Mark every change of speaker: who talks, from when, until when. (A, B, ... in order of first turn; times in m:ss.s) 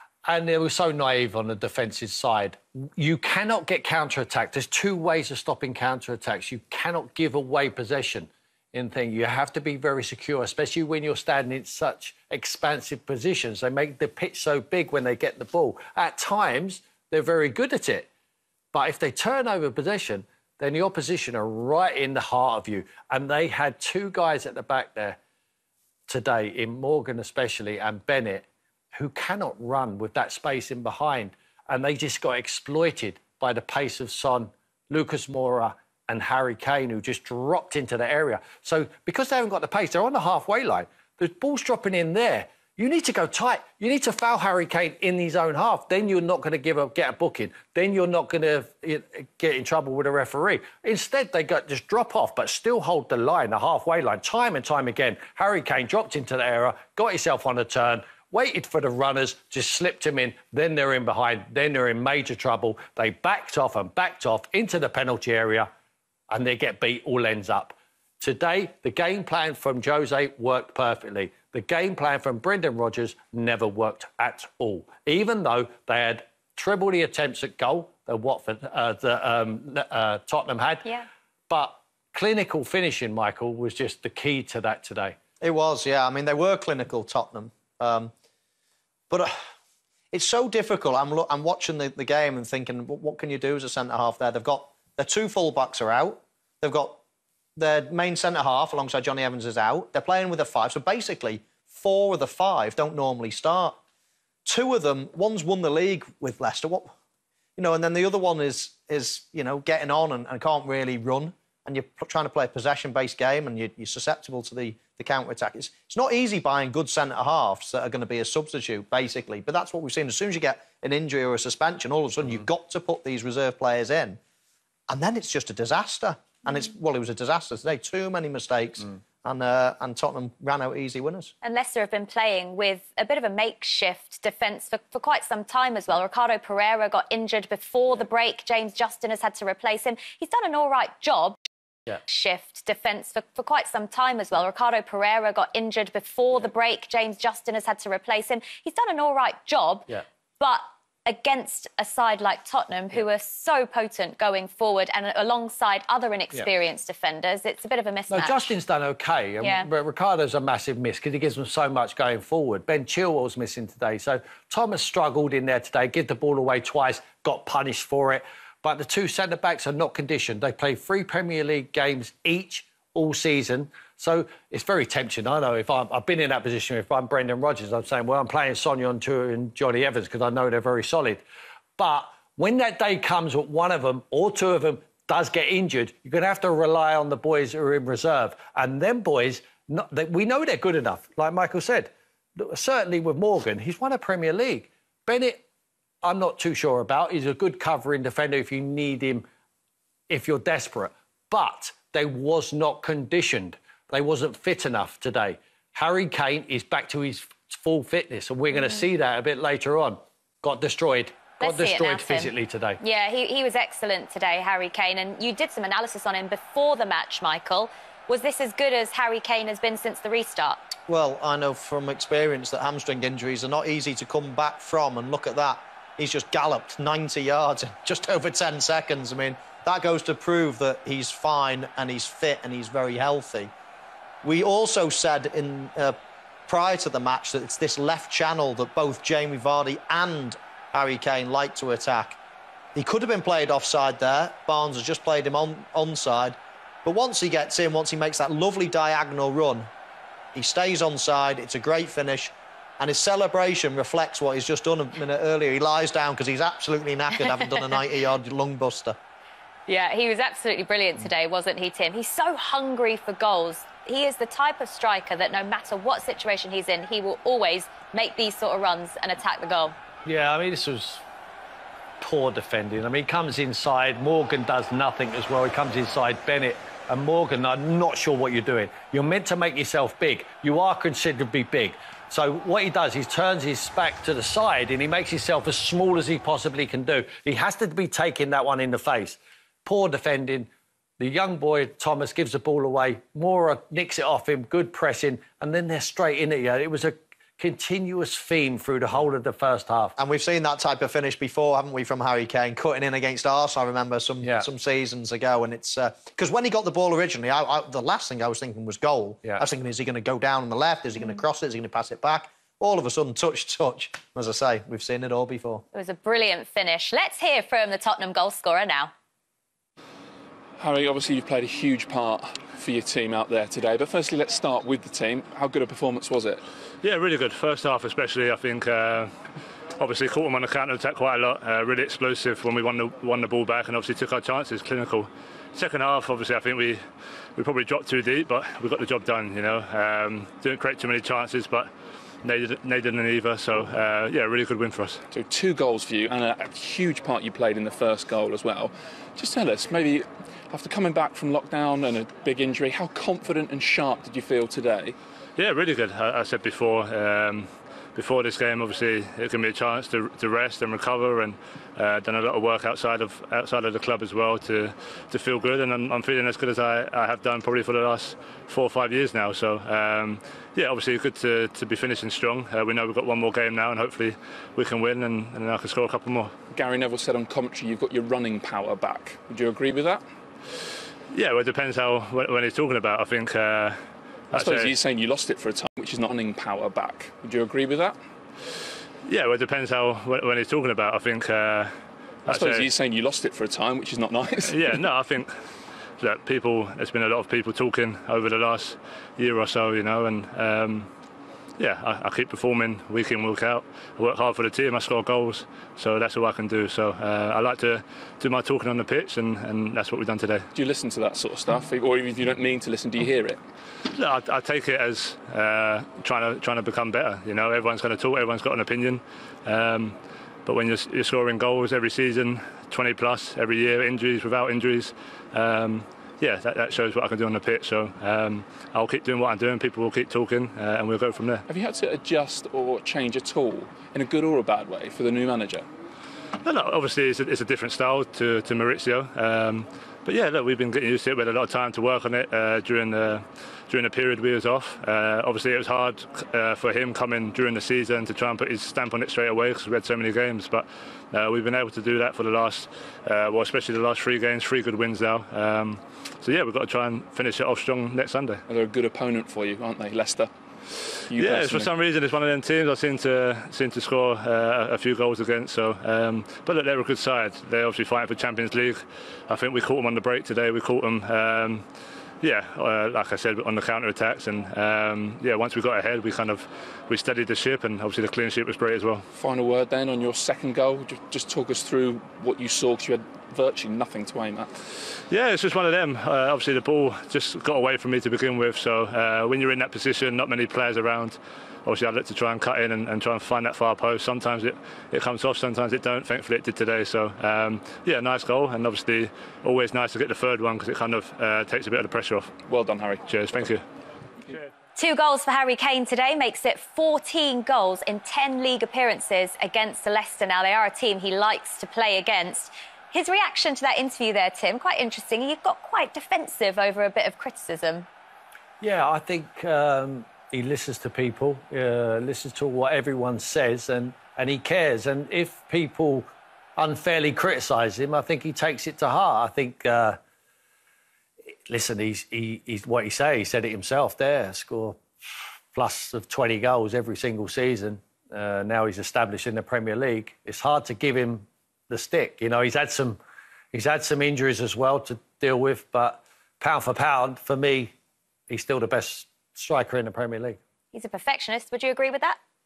0:00.2-0:18.1 A
0:18.7-0:25.2 A
0:26.1-1:05.7 A
1:06.3-1:20.9 A
1:21.5-1:25.2 A
1:25.4-1:28.1 B
1:29.1-1:29.4 B
1:30.1-1:37.0 B
1:37.6-1:43.8 B
1:44.4-1:46.9 B
1:47.6-2:04.2 B
2:04.9-2:11.3 B
2:11.4-2:21.4 C
2:22.0-2:29.9 C
2:30.4-2:38.5 C
2:38.1-3:01.2 A
2:39.4-2:39.7 C
3:01.8-3:15.4 A
3:16.0-3:19.2 A
3:20.1-3:32.8 A
3:31.4-3:40.6 C
3:40.9-3:53.5 B
3:54.2-3:56.0 B
3:56.5-4:02.2 B
4:02.7-4:09.7 B
4:10.3-4:19.0 B
4:19.7-4:29.7 C
4:30.0-4:31.0 A
4:32.0-4:59.9 A
5:00.0-5:15.6 B
5:15.7-5:18.9 C
5:20.6-5:26.4 D
5:26.8-5:29.2 E
5:29.8-5:36.8 E
5:37.4-5:41.7 E
5:42.2-5:45.0 E
5:45.1-5:55.0 D
5:55.4-6:16.3 E
6:16.5-6:20.0 D
6:21.1-6:23.8 E
6:24.3-6:24.7 E
6:24.3-6:28.0 D
6:29.0-6:31.7 E
6:32.3-6:32.7 E
6:32.3-6:34.7 D
6:34.4-6:35.4 E
6:36.0-6:40.9 E
6:41.6-6:50.5 E
6:50.5-6:53.4 D
6:53.9-6:59.9 E
7:00.4-7:11.4 E
7:11.5-7:15.6 D
7:16.4-7:38.4 E
7:38.5-7:40.3 D
7:41.1-7:41.7 D
7:41.1-7:51.6 E
7:52.2-7:59.0 E
7:59.1-8:04.5 D
8:05.1-8:22.3 E
8:22.5-8:23.1 D
8:23.1-8:23.6 E
8:24.8-8:37.8 C
8:38.6-8:50.0 A
8:51.5-8:54.8 A
8:55.5-9:03.0 A
9:03.5-9:07.7 A
9:08.3-9:10.4 A
9:10.7-9:12.2 C